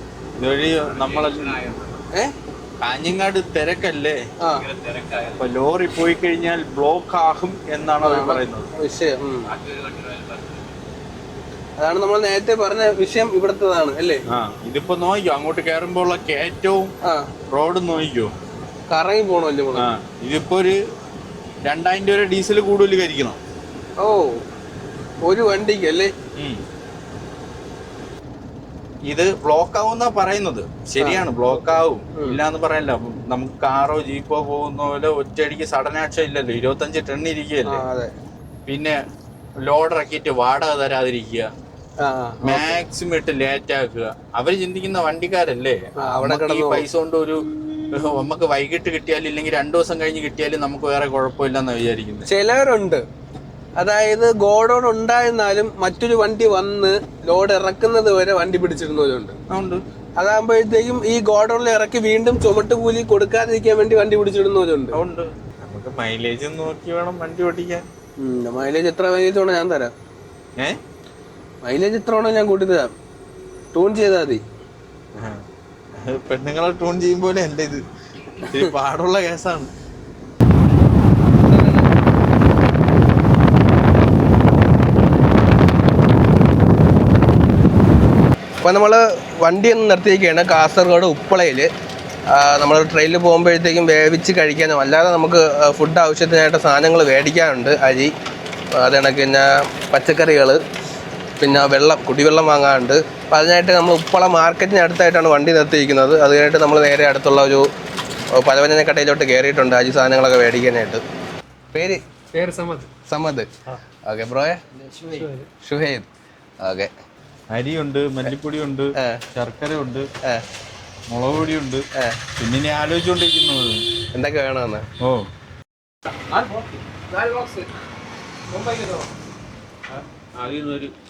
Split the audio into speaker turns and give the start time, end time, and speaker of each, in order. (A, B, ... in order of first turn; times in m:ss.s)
0:00.4-0:01.6 A
0:00.8-0:02.0 B
0:02.8-0:04.2 A
0:04.5-0:05.4 B
0:05.4-0:08.7 A
0:08.0-0:09.5 C
0:09.5-0:10.8 B
0:11.8-0:14.2 C
0:14.3-0:16.9 A
0:17.5-0:18.3 A
0:18.9-0:19.9 C
0:19.8-0:20.8 A
0:21.6-0:23.4 A
0:24.0-0:24.4 C
0:25.2-0:26.1 C
0:29.1-0:37.9 A
0:31.0-0:31.3 C
0:32.2-0:32.4 C
0:37.7-0:38.1 C
0:38.7-0:39.0 A
0:39.6-0:41.5 A
0:42.0-0:42.8 C
0:42.4-0:52.2 A
0:46.0-0:46.9 C
0:52.3-0:53.0 C
0:53.8-0:59.4 C
0:59.5-0:59.8 A
1:00.2-1:05.0 C
1:04.9-1:07.8 A
1:08.2-1:09.9 C
1:11.6-1:12.9 C
1:13.7-1:14.4 C
1:15.2-1:15.4 A
1:16.0-1:17.8 A
1:18.4-1:19.7 A
1:21.5-1:21.8 C
1:28.6-1:31.7 C
1:32.3-1:38.1 C
1:38.8-1:40.6 C
1:41.4-1:47.7 C
1:48.3-1:51.0 C
1:51.7-1:53.5 C
1:54.1-1:56.1 C
1:56.6-1:56.9 C
1:57.5-2:00.1 A
2:01.1-2:01.8 A
2:02.4-2:03.8 A
2:04.1-2:04.8 C
2:05.0-2:05.3 A
2:09.9-2:10.9 B